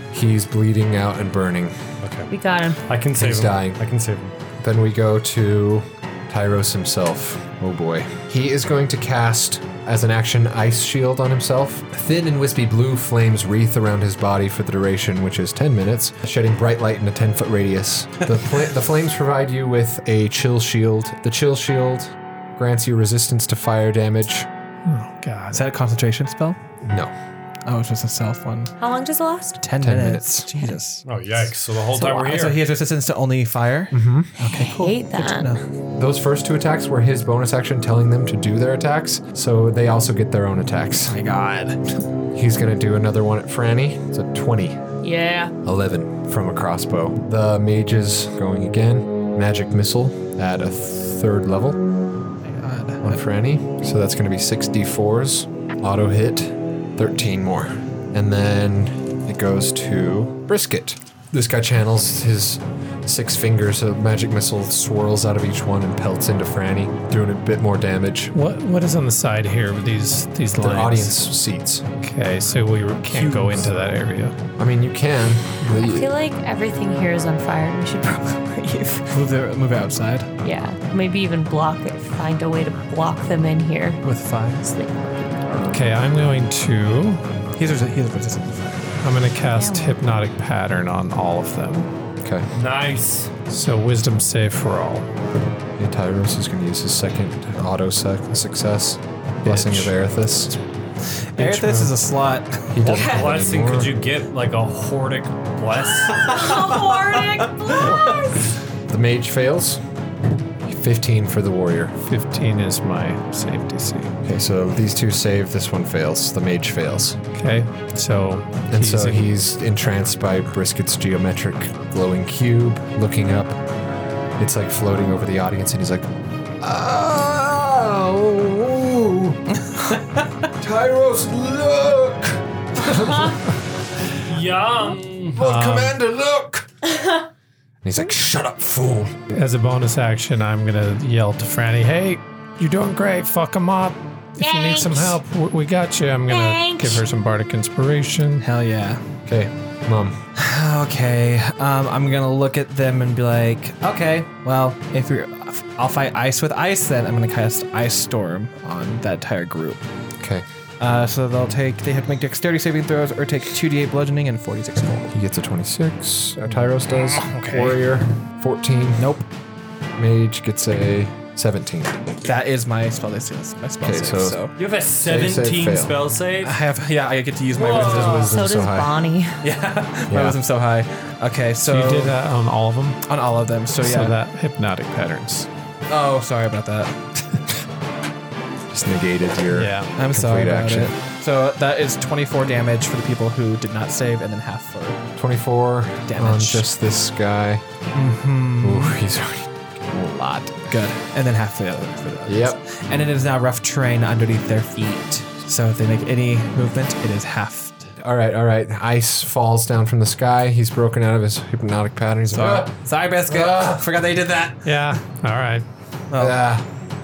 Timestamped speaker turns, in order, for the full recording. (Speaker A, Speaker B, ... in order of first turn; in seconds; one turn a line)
Speaker A: 0.1-1.8
Speaker B: 2.0-2.3
Speaker C: 2.3-2.8
Speaker B: 2.8-4.3
Speaker A: 3.1-3.8
Speaker A: 4.6-24.5
Speaker D: 24.9-25.7
Speaker E: 25.5-26.6
Speaker A: 26.8-27.1
Speaker E: 27.6-28.7
Speaker C: 28.8-29.6
Speaker E: 29.6-31.0
Speaker A: 29.8-30.5
Speaker B: 31.1-32.6
Speaker E: 31.9-35.6
Speaker A: 33.9-34.3
Speaker C: 34.4-35.5
Speaker A: 35.9-41.2
Speaker E: 41.1-41.8
Speaker A: 42.3-44.8
Speaker C: 45.0-45.5
Speaker A: 45.6-51.8
Speaker E: 52.4-53.2
Speaker A: 53.0-68.3
Speaker D: 68.3-71.2
Speaker A: 70.5-71.8
Speaker D: 72.0-74.3
Speaker E: 73.1-73.7
Speaker A: 74.6-76.1
Speaker C: 75.7-79.1
Speaker E: 79.1-80.3
Speaker C: 80.4-84.0
Speaker E: 84.0-84.7
Speaker C: 84.6-85.7
Speaker D: 85.7-87.2
Speaker E: 87.5-89.0
Speaker D: 89.0-91.9
Speaker C: 89.5-90.0
Speaker B: 92.5-93.3
Speaker D: 93.5-95.1
Speaker A: 95.8-100.6
Speaker D: 99.5-99.8
Speaker E: 101.3-102.7
Speaker A: 101.4-102.0
Speaker A: 102.7-104.0
Speaker C: 102.8-103.3
Speaker B: 102.9-106.3
Speaker C: 106.2-108.5
Speaker E: 106.5-106.8
Speaker A: 108.9-109.8
Speaker A: 110.6-112.0
Speaker D: 112.0-114.2
Speaker A: 114.2-117.2
Speaker D: 117.3-119.2
Speaker A: 118.7-123.6
Speaker A: 124.4-126.1
Speaker A: 126.6-129.4
Speaker A: 130.6-133.3
Speaker C: 132.8-133.4
Speaker B: 134.2-135.4
Speaker A: 135.3-136.7
Speaker D: 135.4-136.0
Speaker C: 136.8-137.2
Speaker A: 137.8-139.1
Speaker D: 139.3-148.5
Speaker C: 144.4-145.2
Speaker C: 146.3-147.0
Speaker E: 148.4-149.0
Speaker A: 149.3-150.2
Speaker E: 150.4-159.8
Speaker A: 160.2-160.4
Speaker E: 160.8-165.1
Speaker A: 165.1-169.1
Speaker E: 166.9-167.8
Speaker E: 169.0-169.2
Speaker A: 169.9-172.0
Speaker E: 172.2-174.5
Speaker A: 173.8-174.4
Speaker B: 174.6-176.6
Speaker A: 175.0-175.9
Speaker E: 176.4-178.3
Speaker B: 177.5-178.3
Speaker C: 177.7-179.4
Speaker A: 177.7-179.0
Speaker E: 179.4-182.2
Speaker A: 180.1-180.4
Speaker D: 181.6-183.0
Speaker E: 183.1-184.2
Speaker D: 183.8-185.5
Speaker E: 185.9-187.4
Speaker A: 188.7-190.9
Speaker D: 189.5-189.9
Speaker E: 189.9-195.0
Speaker A: 195.2-197.6
Speaker E: 196.1-196.7
Speaker E: 197.9-199.0
Speaker A: 198.6-200.5
Speaker E: 199.9-207.9
Speaker A: 202.2-202.6
Speaker A: 208.0-212.7
Speaker E: 212.3-214.7
Speaker A: 213.3-213.9
Speaker D: 214.6-215.6
Speaker E: 216.1-216.4
Speaker A: 216.2-216.7